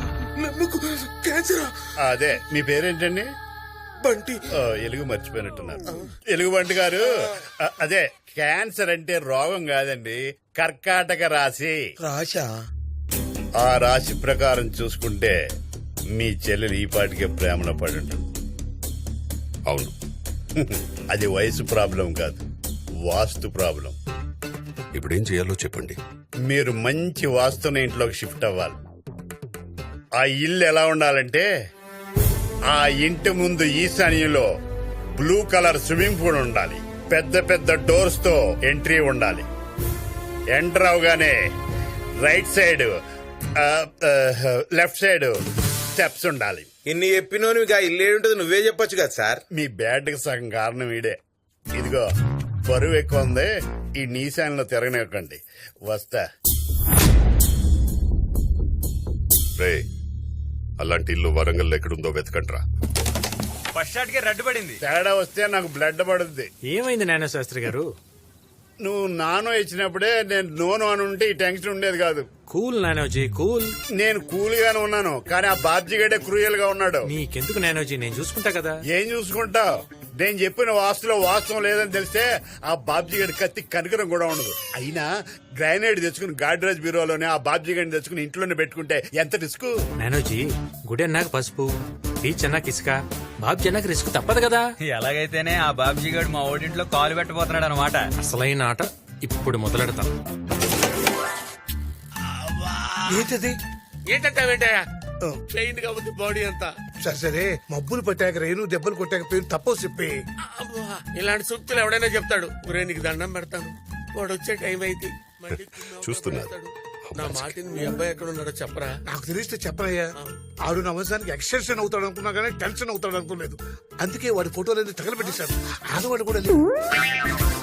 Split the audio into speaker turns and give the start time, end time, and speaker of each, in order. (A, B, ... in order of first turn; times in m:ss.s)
0:00.4-0:01.7 A
0:02.0-0:03.3 B
0:04.1-0:04.4 A
0:04.5-0:11.8 B
0:13.6-0:15.3 B
0:16.1-0:18.2 B
0:19.7-0:19.9 C
0:20.6-0:22.4 B
0:23.1-0:24.0 B
0:24.9-0:26.0 C
0:26.4-0:28.8 B
0:30.2-0:31.4 B
0:32.7-0:34.5 B
0:35.2-0:39.4 B
0:40.5-0:41.4 B
0:42.2-0:42.9 B
0:43.6-0:45.3 B
0:45.9-0:46.7 B
0:46.9-0:49.4 D
0:49.5-0:51.2 B
0:51.8-0:52.0 B
0:52.7-0:56.2 B
0:59.6-0:59.8 C
1:00.8-1:02.6 C
1:03.8-1:04.8 E
1:04.8-1:06.5 B
1:06.7-1:07.9 F
1:08.8-1:12.2 B
1:12.5-1:13.7 F
1:14.0-1:17.1 B
1:17.0-1:18.8 F
1:18.9-1:29.7 B
1:30.0-1:31.7 F
1:32.2-1:34.6 F
1:34.8-1:38.1 E
1:38.2-1:40.1 F
1:42.3-1:43.1 G
1:43.1-1:43.6 A
1:44.1-1:44.8 G
1:45.5-1:46.7 G
1:47.0-1:50.1 A
1:50.4-1:58.9 G
1:56.0-1:56.5 C
1:57.1-1:57.5 C
1:59.1-2:00.1 A
2:00.6-2:06.6 A